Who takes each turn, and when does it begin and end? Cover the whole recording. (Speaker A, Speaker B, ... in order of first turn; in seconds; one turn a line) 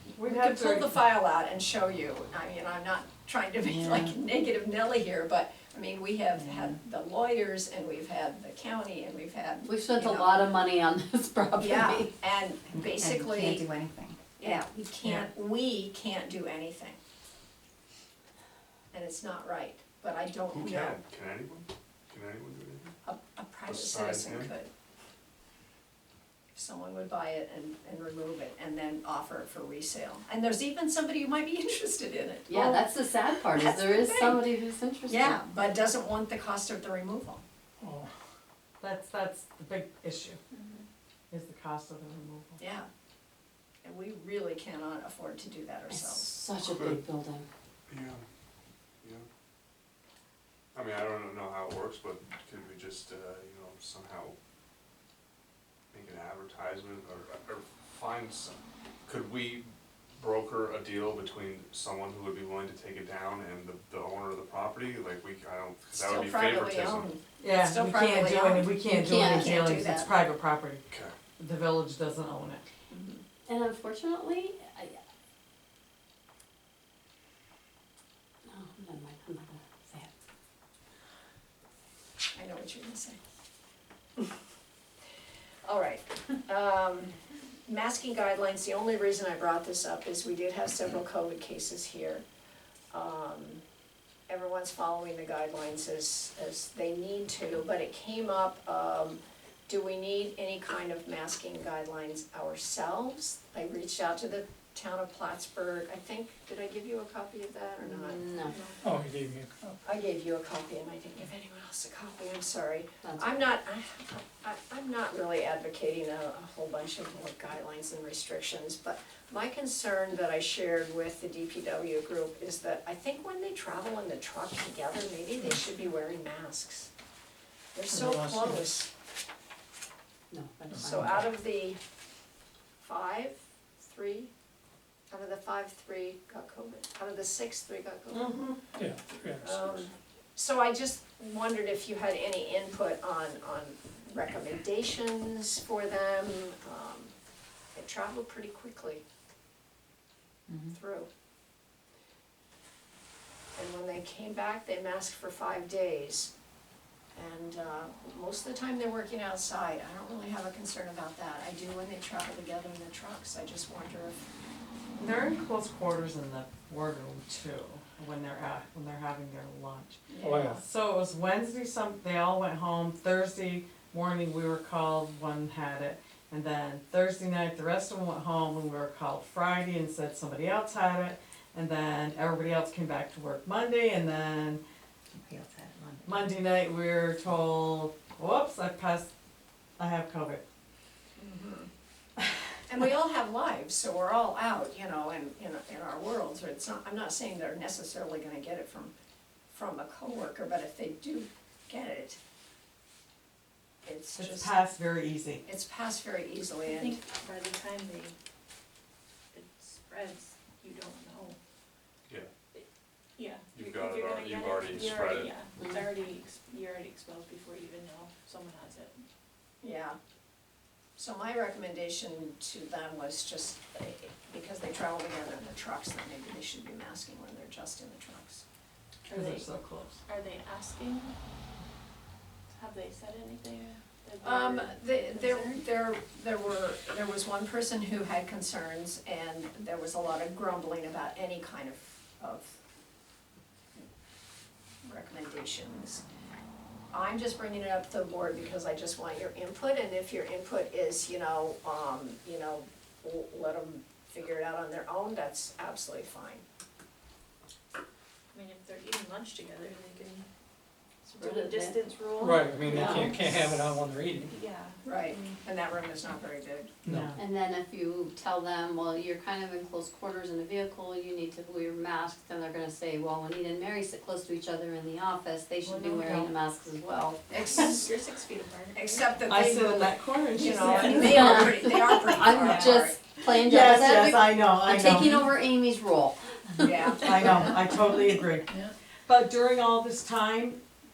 Speaker A: 0.2-0.9
Speaker B: 0.2-10.4
Speaker C: 3.6-4.2
Speaker C: 6.4-6.8
Speaker D: 9.6-12.1
Speaker B: 11.6-13.7
Speaker C: 12.7-14.2
Speaker B: 14.4-17.0
Speaker B: 18.9-21.0
Speaker E: 20.5-23.0
Speaker B: 23.0-24.7
Speaker E: 23.7-24.5
Speaker B: 26.6-32.9
Speaker D: 32.5-35.4
Speaker B: 33.5-34.4
Speaker B: 35.1-37.4
Speaker F: 37.8-38.1
Speaker A: 38.8-40.4
Speaker G: 40.5-40.8
Speaker A: 41.3-42.6
Speaker B: 42.6-42.9
Speaker B: 43.8-46.3
Speaker D: 45.9-47.5
Speaker E: 46.6-47.0
Speaker E: 47.9-48.2
Speaker E: 50.7-54.4
Speaker E: 55.9-67.1
Speaker B: 65.9-70.1
Speaker A: 67.4-70.8
Speaker D: 68.9-69.6
Speaker E: 70.9-71.1
Speaker A: 71.4-72.7
Speaker B: 72.9-73.2
Speaker D: 73.5-75.0
Speaker D: 78.5-80.1
Speaker B: 82.3-83.2
Speaker B: 85.6-87.1
Speaker B: 87.7-92.2
Speaker B: 92.9-93.6
Speaker B: 94.3-108.3
Speaker D: 107.8-108.5
Speaker G: 108.4-109.0
Speaker F: 108.8-109.7
Speaker B: 109.8-126.9
Speaker D: 113.0-113.5
Speaker B: 127.7-128.9
Speaker F: 127.9-128.8
Speaker D: 130.3-131.2
Speaker F: 130.7-131.2
Speaker B: 130.8-131.8
Speaker B: 132.8-134.3
Speaker B: 135.1-138.4
Speaker A: 138.1-138.6
Speaker F: 138.8-139.6
Speaker B: 139.4-147.1
Speaker B: 147.8-149.0
Speaker B: 150.7-151.1
Speaker B: 153.6-156.3
Speaker B: 157.1-164.3
Speaker A: 165.0-170.0
Speaker B: 170.1-170.6
Speaker F: 170.2-170.6
Speaker A: 170.6-184.6
Speaker C: 185.1-186.2
Speaker A: 186.0-189.1
Speaker A: 189.8-190.4
Speaker B: 191.2-191.7
Speaker B: 192.7-198.9
Speaker B: 199.5-202.2
Speaker B: 203.8-204.6
Speaker A: 204.2-205.4
Speaker B: 205.4-207.0
Speaker G: 206.6-208.2
Speaker G: 209.3-211.4
Speaker G: 213.2-219.0
Speaker E: 213.5-215.4
Speaker D: 215.6-215.9
Speaker B: 219.6-220.0
Speaker B: 221.0-228.4
Speaker G: 229.1-229.5
Speaker A: 229.1-230.0
Speaker G: 230.1-231.2
Speaker G: 232.6-235.6
Speaker B: 234.2-242.6
Speaker B: 244.8-246.0
Speaker B: 246.9-256.4
Speaker G: 258.3-260.3
Speaker G: 261.1-263.2
Speaker D: 261.2-261.8
Speaker F: 262.2-264.3
Speaker A: 262.2-263.1
Speaker B: 262.7-263.1
Speaker G: 264.2-265.4
Speaker B: 264.8-266.7
Speaker F: 266.9-267.1
Speaker A: 266.9-267.2
Speaker D: 267.2-277.2
Speaker A: 275.6-276.3
Speaker B: 277.3-277.9
Speaker G: 277.4-279.1
Speaker B: 278.7-283.0
Speaker A: 279.3-281.7
Speaker D: 280.8-286.2
Speaker A: 283.3-285.3
Speaker B: 286.6-287.4
Speaker A: 286.9-288.5
Speaker A: 289.1-290.6